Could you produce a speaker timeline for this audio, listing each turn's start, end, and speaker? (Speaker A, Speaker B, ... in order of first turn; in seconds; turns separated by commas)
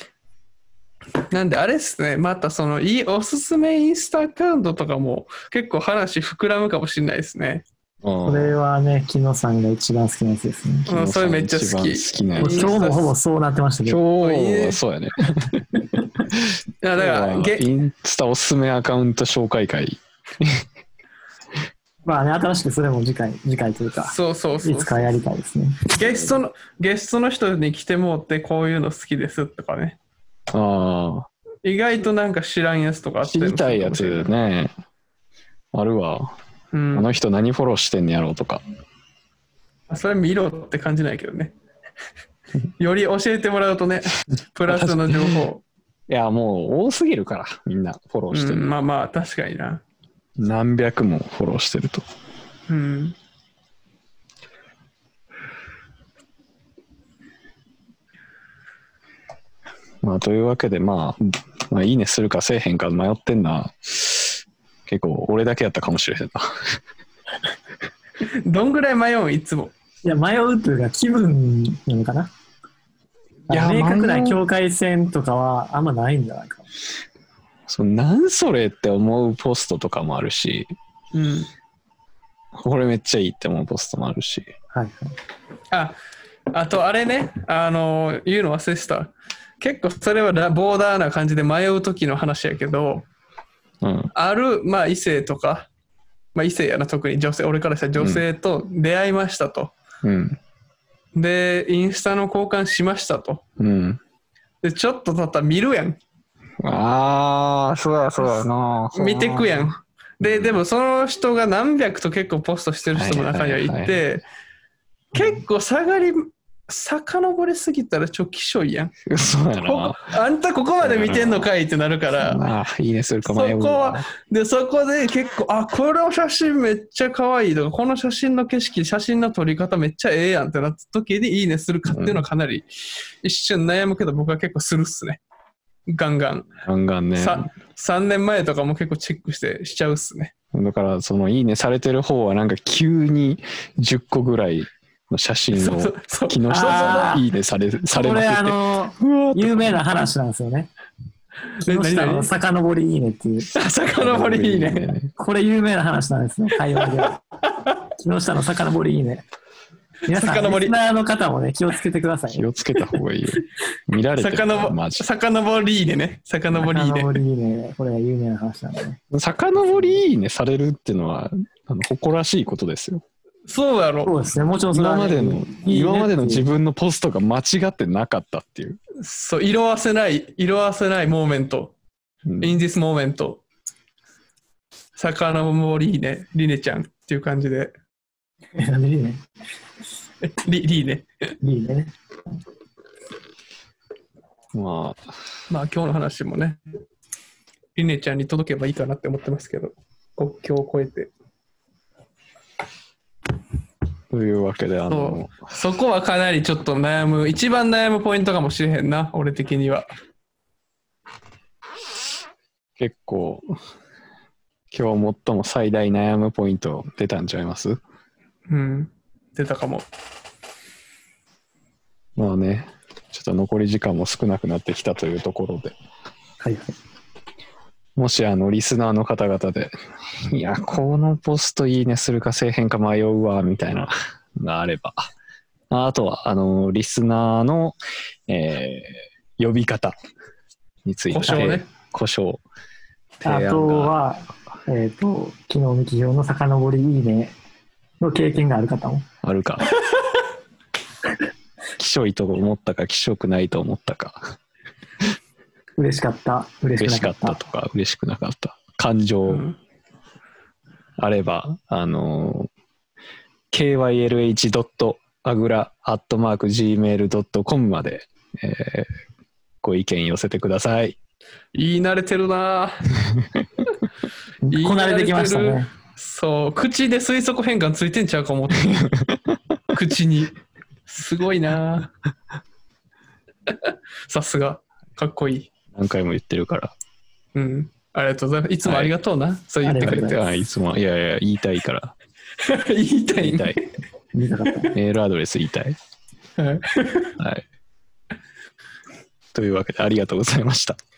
Speaker A: 1.3-7.7, Speaker B: 8.0-8.6, Speaker C: 8.2-10.9, Speaker B: 10.9-12.8, Speaker A: 10.9-13.1, Speaker C: 12.4-14.0, Speaker B: 13.9-20.6, Speaker A: 14.2-14.8, Speaker A: 16.8-17.6, Speaker C: 22.1-25.9, Speaker A: 24.1-25.1, Speaker A: 25.9-30.0, Speaker B: 30.5-31.3, Speaker A: 31.6-34.3, Speaker B: 33.2-34.7, Speaker B: 35.7-36.3, Speaker A: 36.7-37.1, Speaker B: 36.9-38.6, Speaker A: 39.9-41.5, Speaker A: 42.8-45.6, Speaker B: 44.7-45.5, Speaker B: 46.1-48.7, Speaker A: 48.3-49.8, Speaker B: 50.4-52.0, Speaker A: 52.7-53.2, Speaker B: 60.0-66.8, Speaker A: 68.2-69.7, Speaker C: 70.0-72.3, Speaker B: 73.5-74.4, Speaker C: 73.5-76.7, Speaker B: 77.7-80.7, Speaker A: 81.1-81.5, Speaker B: 82.5-84.5, Speaker C: 84.7-85.1, Speaker A: 85.7-86.0, Speaker A: 86.5-93.1, Speaker B: 93.8-94.1, Speaker A: 94.2-95.7, Speaker A: 96.3-99.7, Speaker B: 98.0-98.2, Speaker B: 100.0-100.4, Speaker A: 101.2-103.4, Speaker B: 103.6-104.0, Speaker A: 104.6-106.0, Speaker B: 106.6-109.7, Speaker A: 108.2-114.2, Speaker B: 110.2-110.6, Speaker B: 112.9-114.0, Speaker A: 115.1-118.9, Speaker B: 119.1-120.2, Speaker A: 119.6-122.4, Speaker B: 120.8-121.5, Speaker B: 122.2-124.1, Speaker A: 123.2-135.2, Speaker B: 131.9-132.3, Speaker A: 135.9-136.6, Speaker B: 136.6-137.5, Speaker A: 137.2-140.3, Speaker B: 140.5-149.8, Speaker A: 145.5-147.2, Speaker C: 146.5-147.3, Speaker C: 147.9-150.7, Speaker A: 151.6-152.3, Speaker C: 151.6-153.5, Speaker A: 153.5-154.9, Speaker B: 154.0-155.1, Speaker C: 155.2-157.2, Speaker A: 156.8-157.1, Speaker C: 158.0-159.2, Speaker A: 160.1-160.8, Speaker C: 160.1-162.5, Speaker B: 162.3-165.0, Speaker A: 164.2-167.2, Speaker C: 166.6-169.0, Speaker B: 169.1-173.0, Speaker A: 173.5-174.1, Speaker C: 174.1-176.4, Speaker B: 174.7-178.8, Speaker A: 179.0-181.8, Speaker B: 182.3-182.6, Speaker A: 182.4-183.4, Speaker A: 185.0-187.7, Speaker C: 188.6-189.2, Speaker A: 190.2-191.3, Speaker C: 191.4-191.9, Speaker B: 194.5-195.1, Speaker A: 195.5-196.6, Speaker A: 197.8-201.1, Speaker B: 204.1-205.4, Speaker A: 204.9-209.9, Speaker B: 212.8-213.5, Speaker B: 214.7-217.8, Speaker A: 218.5-219.9, Speaker B: 222.2-225.8, Speaker C: 226.4-226.8, Speaker B: 228.0-235.1, Speaker B: 235.7-237.8, Speaker B: 238.3-240.0, Speaker B: 240.8-242.4, Speaker A: 241.1-241.7, Speaker B: 243.2-244.0, Speaker C: 243.2-247.3, Speaker C: 248.0-249.1, Speaker B: 249.2-249.7, Speaker B: 251.8-254.3, Speaker C: 255.8-257.4, Speaker B: 256.8-259.4, Speaker A: 259.3-259.6, Speaker B: 261.0-262.5, Speaker B: 263.5-268.9, Speaker B: 269.6-271.0, Speaker A: 271.5-273.0, Speaker C: 274.4-275.7, Speaker A: 274.5-279.0, Speaker B: 278.6-279.4, Speaker A: 279.7-280.4, Speaker A: 280.9-281.9, Speaker A: 283.5-285.5, Speaker B: 285.7-286.7, Speaker A: 287.4-290.3, Speaker B: 288.6-288.9, Speaker C: 289.6-290.2, Speaker B: 289.8-291.9, Speaker A: 292.4-293.7, Speaker B: 293.2-293.6, Speaker C: 294.1-294.8, Speaker B: 294.7-295.8, Speaker A: 296.4-297.2, Speaker B: 297.2-297.4, Speaker B: 299.3-300.8